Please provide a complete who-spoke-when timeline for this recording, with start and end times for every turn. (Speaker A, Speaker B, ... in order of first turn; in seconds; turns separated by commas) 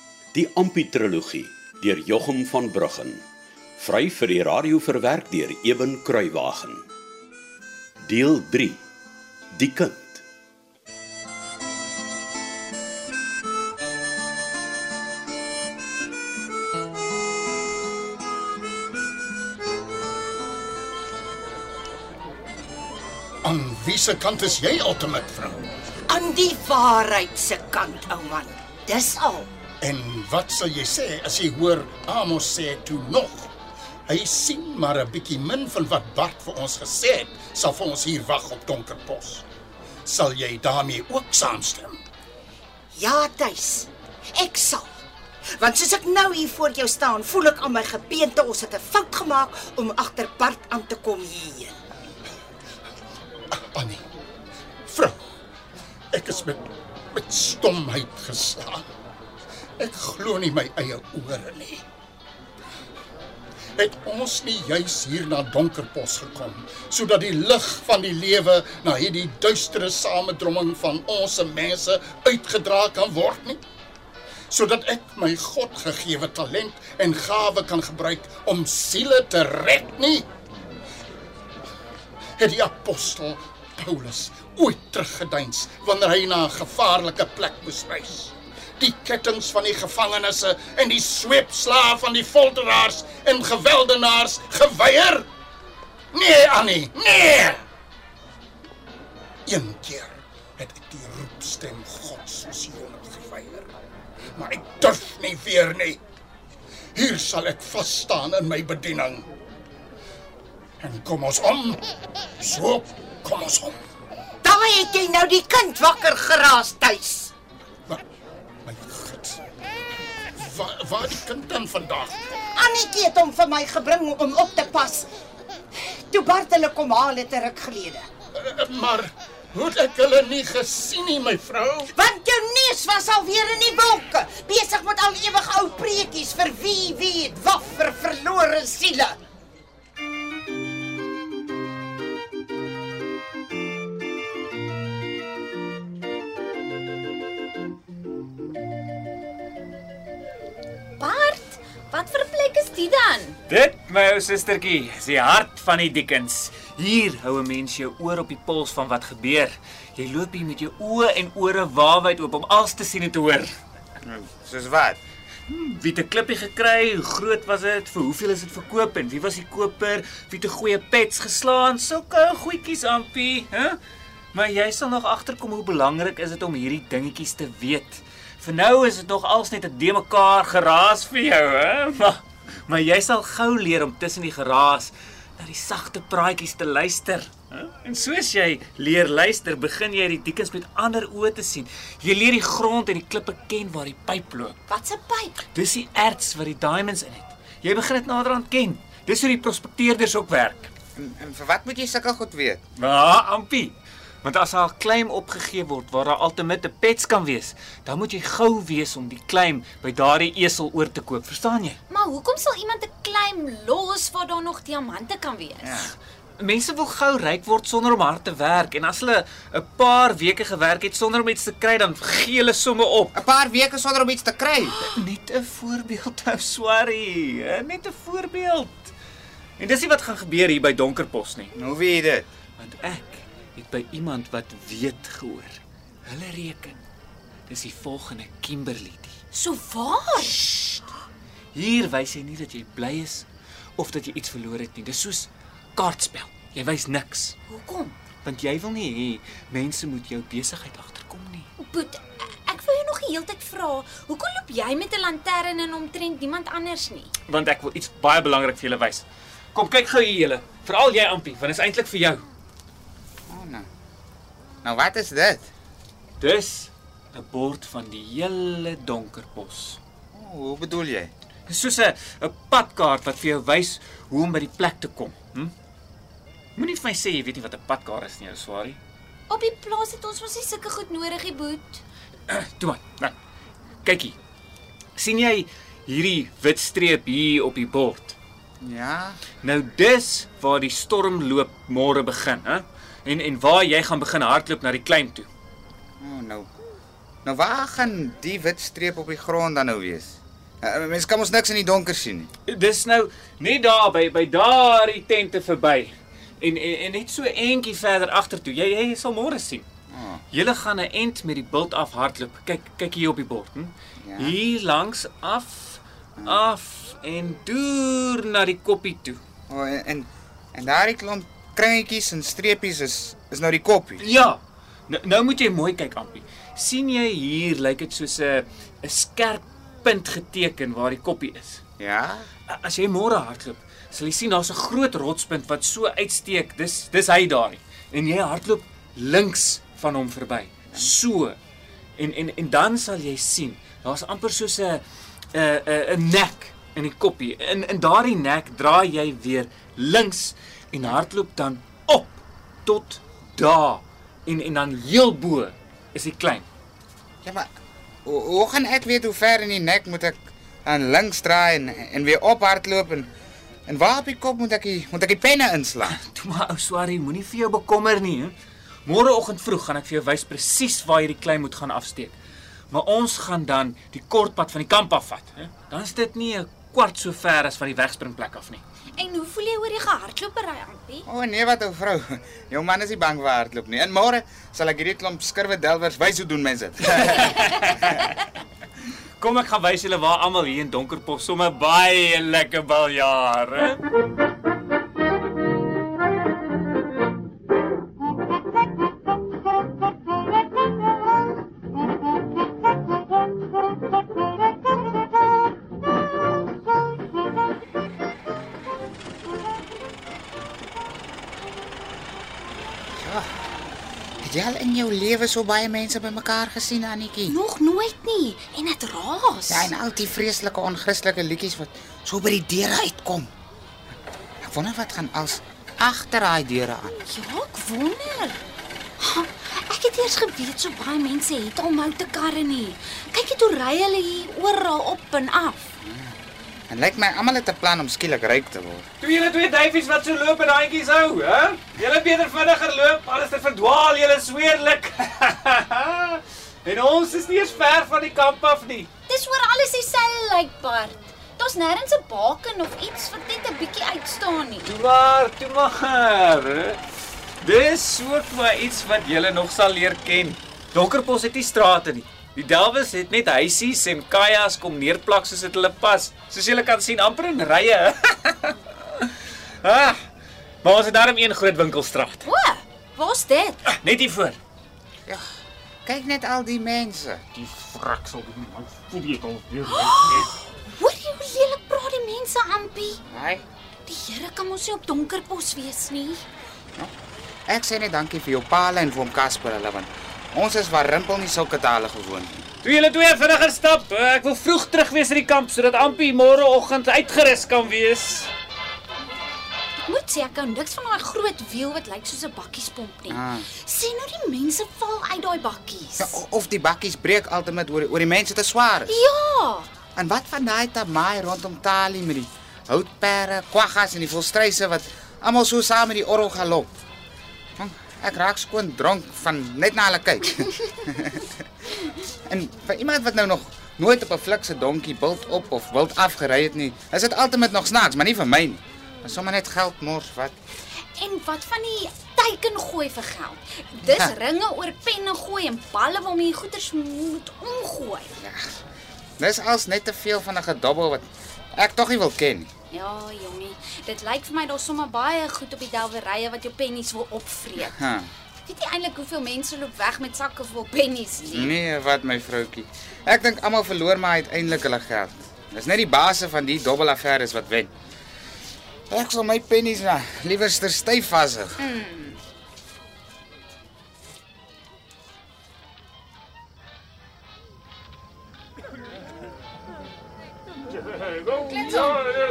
Speaker A: 0.3-3.2, Speaker A: 3.8-6.8, Speaker A: 8.1-8.8, Speaker A: 9.6-10.2, Speaker B: 23.4-25.7, Speaker C: 26.1-29.5, Speaker B: 29.8-33.5, Speaker B: 34.1-39.4, Speaker B: 40.0-42.0, Speaker C: 42.9-44.9, Speaker C: 45.6-51.7, Speaker B: 53.6-54.0, Speaker B: 54.9-55.2, Speaker B: 56.1-58.9, Speaker B: 59.8-61.8, Speaker B: 63.8-73.6, Speaker B: 74.5-80.3, Speaker B: 82.4-95.2, Speaker B: 96.1-97.6, Speaker B: 99.5-103.7, Speaker B: 104.3-106.0, Speaker B: 107.0-109.3, Speaker B: 110.8-111.9, Speaker B: 112.4-113.8, Speaker C: 114.4-117.3, Speaker B: 118.7-119.4, Speaker B: 120.4-122.2, Speaker C: 122.5-125.1, Speaker C: 125.7-128.1, Speaker B: 128.3-131.9, Speaker C: 131.9-139.2, Speaker D: 151.0-153.3, Speaker E: 153.5-163.5, Speaker F: 164.0-165.0, Speaker E: 165.5-173.8, Speaker E: 174.3-194.6, Speaker D: 194.7-195.4, Speaker E: 195.5-200.7, Speaker F: 200.9-202.6, Speaker E: 202.8-211.8, Speaker D: 211.9-215.8, Speaker F: 215.6-215.9, Speaker E: 216.4-223.1, Speaker F: 223.1-224.8, Speaker E: 224.8-228.9, Speaker E: 229.6-231.5, Speaker F: 231.5-232.3, Speaker E: 232.6-236.8, Speaker E: 237.5-239.2, Speaker D: 239.3-240.6, Speaker E: 241.5-243.2, Speaker E: 243.8-247.3, Speaker D: 247.5-247.9, Speaker E: 248.2-251.5, Speaker D: 251.6-257.1, Speaker E: 257.3-262.2, Speaker F: 263.3-263.7, Speaker F: 264.6-265.5, Speaker E: 266.2-269.8, Speaker F: 270.1-271.1, Speaker E: 271.5-275.5, Speaker E: 276.6-278.8, Speaker D: 279.3-281.8, Speaker E: 282.3-283.1, Speaker E: 283.8-284.1, Speaker E: 284.9-288.1, Speaker F: 288.6-289.2, Speaker E: 289.4-295.3, Speaker F: 296.0-296.5, Speaker F: 297.2-302.3, Speaker E: 302.5-309.6, Speaker F: 309.9-310.2, Speaker E: 310.3-319.2, Speaker F: 314.0-314.4, Speaker F: 319.5-324.0, Speaker E: 324.0-331.6, Speaker F: 331.8-332.3, Speaker E: 332.5-341.4, Speaker E: 342.0-344.8, Speaker E: 345.3-356.4, Speaker F: 358.0-363.1, Speaker F: 363.7-366.0, Speaker E: 365.9-372.1, Speaker E: 372.7-378.6, Speaker D: 379.0-381.1, Speaker F: 381.1-387.7, Speaker E: 386.9-387.6, Speaker E: 389.2-393.8, Speaker F: 413.0-413.3, Speaker F: 414.2-417.4, Speaker D: 417.3-419.7, Speaker F: 419.5-423.3, Speaker F: 424.4-426.9, Speaker D: 427.0-428.4, Speaker D: 429.0-435.7, Speaker F: 435.8-436.1, Speaker F: 436.7-438.8, Speaker E: 439.0-448.9, Speaker D: 449.1-454.7, Speaker E: 454.6-456.8, Speaker E: 457.4-469.1, Speaker E: 469.6-470.0, Speaker E: 470.6-472.3, Speaker D: 472.2-473.6, Speaker E: 473.7-474.4, Speaker F: 475.8-477.2, Speaker E: 477.5-480.2, Speaker D: 479.7-480.2, Speaker D: 480.8-483.0, Speaker F: 483.1-483.4, Speaker D: 483.9-486.2, Speaker F: 487.5-492.4, Speaker E: 492.6-498.3, Speaker D: 499.8-506.2, Speaker F: 503.1-503.5, Speaker F: 506.0-508.9, Speaker D: 508.9-509.7, Speaker F: 509.9-516.7, Speaker F: 517.6-521.3, Speaker F: 522.3-530.4, Speaker D: 531.0-538.1, Speaker F: 538.2-538.6, Speaker F: 539.2-542.5, Speaker D: 542.7-547.8, Speaker F: 547.6-548.1, Speaker D: 548.4-551.5, Speaker F: 551.3-557.7, Speaker F: 558.9-561.6, Speaker D: 561.6-562.2